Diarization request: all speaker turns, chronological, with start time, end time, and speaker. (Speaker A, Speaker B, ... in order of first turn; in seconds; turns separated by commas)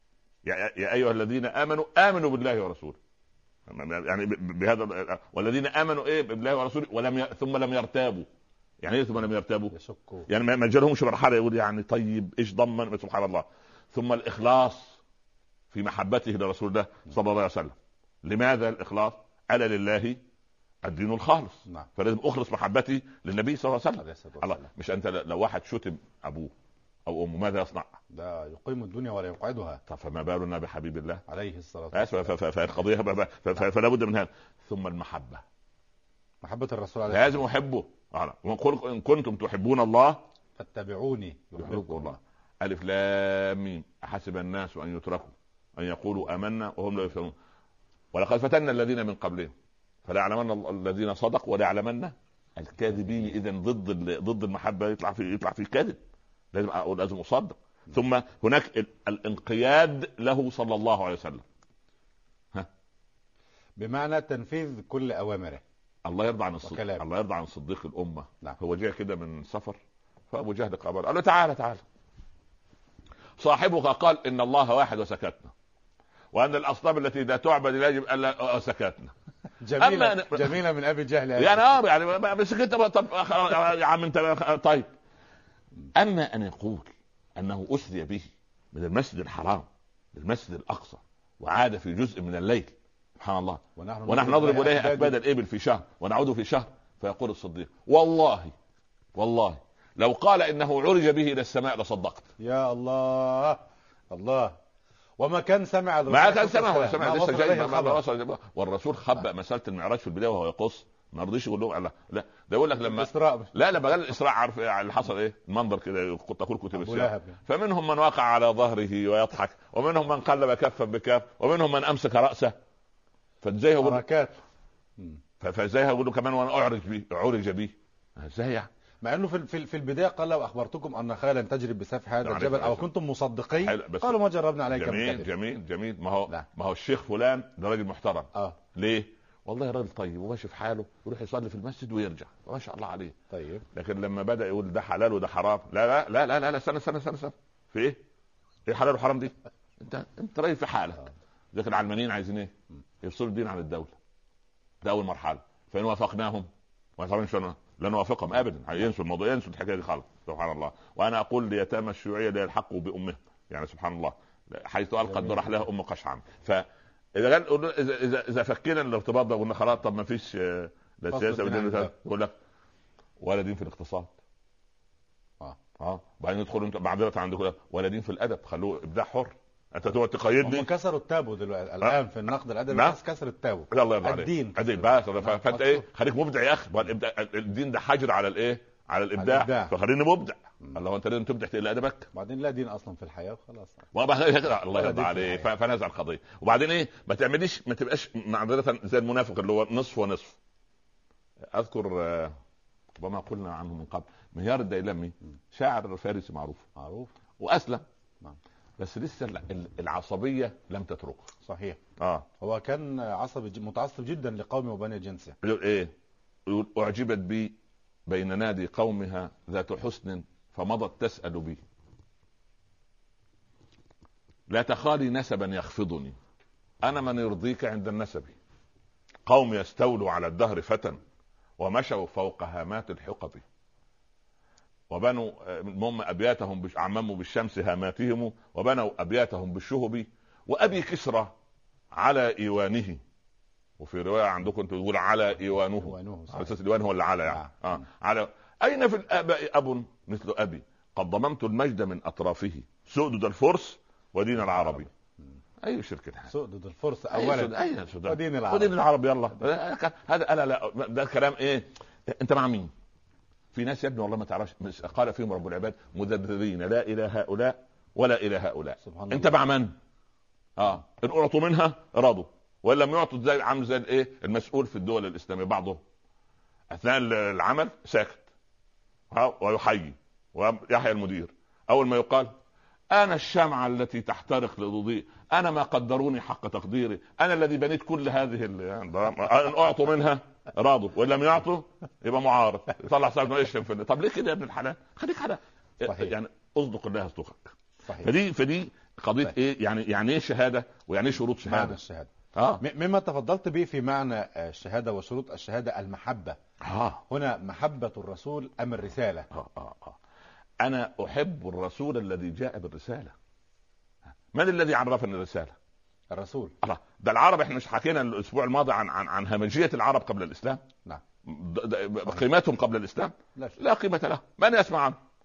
Speaker A: 0.4-3.0, Speaker A: 3.7-8.3, Speaker A: 8.8-9.7, Speaker B: 9.7-10.3, Speaker A: 10.3-15.0, Speaker A: 15.7-20.2, Speaker A: 20.8-26.5, Speaker B: 24.0-24.7, Speaker A: 27.1-28.0, Speaker B: 28.1-29.8, Speaker A: 29.9-31.2, Speaker B: 31.3-32.3, Speaker A: 31.9-35.4, Speaker B: 36.4-37.4, Speaker A: 37.1-40.2, Speaker B: 40.6-42.2, Speaker A: 41.6-47.4, Speaker A: 48.1-49.5, Speaker A: 50.1-56.0, Speaker A: 56.5-61.5, Speaker B: 63.8-65.6, Speaker A: 66.0-69.8, Speaker B: 66.6-67.1, Speaker A: 70.3-71.8, Speaker A: 73.4-75.5, Speaker A: 76.3-79.1, Speaker B: 79.6-81.7, Speaker A: 79.8-80.6, Speaker A: 81.4-84.9, Speaker A: 85.9-98.5, Speaker B: 93.8-95.2, Speaker A: 99.2-102.3, Speaker B: 102.4-104.6, Speaker B: 105.2-108.0, Speaker A: 106.1-122.6, Speaker B: 112.8-113.5, Speaker B: 116.8-117.4, Speaker A: 123.4-124.0, Speaker B: 123.8-124.4, Speaker A: 125.4-128.7, Speaker B: 129.0-135.3, Speaker A: 132.2-132.9, Speaker A: 133.6-143.2, Speaker B: 143.3-143.7, Speaker A: 143.7-148.0, Speaker A: 148.7-154.0, Speaker A: 154.8-172.3, Speaker B: 165.1-165.5, Speaker B: 171.1-171.9, Speaker A: 173.2-174.1, Speaker A: 175.8-180.7, Speaker B: 180.4-185.9, Speaker A: 182.7-183.0, Speaker A: 183.7-192.1, Speaker B: 189.2-189.7, Speaker B: 192.1-193.8, Speaker A: 193.9-200.4, Speaker B: 194.7-195.5, Speaker A: 201.5-202.4, Speaker A: 203.0-206.7, Speaker B: 206.8-207.1, Speaker A: 207.4-207.8, Speaker A: 208.8-211.3, Speaker B: 211.4-211.8, Speaker A: 212.0-212.3, Speaker B: 212.4-215.4, Speaker A: 215.4-215.9, Speaker A: 216.5-221.6, Speaker A: 224.5-226.2, Speaker A: 226.8-228.4, Speaker A: 229.3-231.0, Speaker A: 231.6-233.4, Speaker A: 234.9-241.4, Speaker A: 241.9-243.0, Speaker A: 243.8-254.9, Speaker B: 245.7-246.5, Speaker A: 255.6-256.3, Speaker B: 256.3-258.8, Speaker A: 257.1-262.7, Speaker A: 263.5-269.8, Speaker B: 268.8-269.3, Speaker A: 270.6-275.8, Speaker A: 276.7-278.2, Speaker A: 279.1-282.3, Speaker A: 282.9-301.8, Speaker B: 295.8-296.1, Speaker B: 301.4-302.1, Speaker A: 302.4-302.6, Speaker B: 302.6-306.4, Speaker A: 306.6-307.0, Speaker B: 307.1-309.3, Speaker A: 309.3-310.0, Speaker A: 310.6-313.1, Speaker A: 314.3-315.6, Speaker B: 316.1-316.5, Speaker A: 316.6-320.6, Speaker A: 321.2-325.0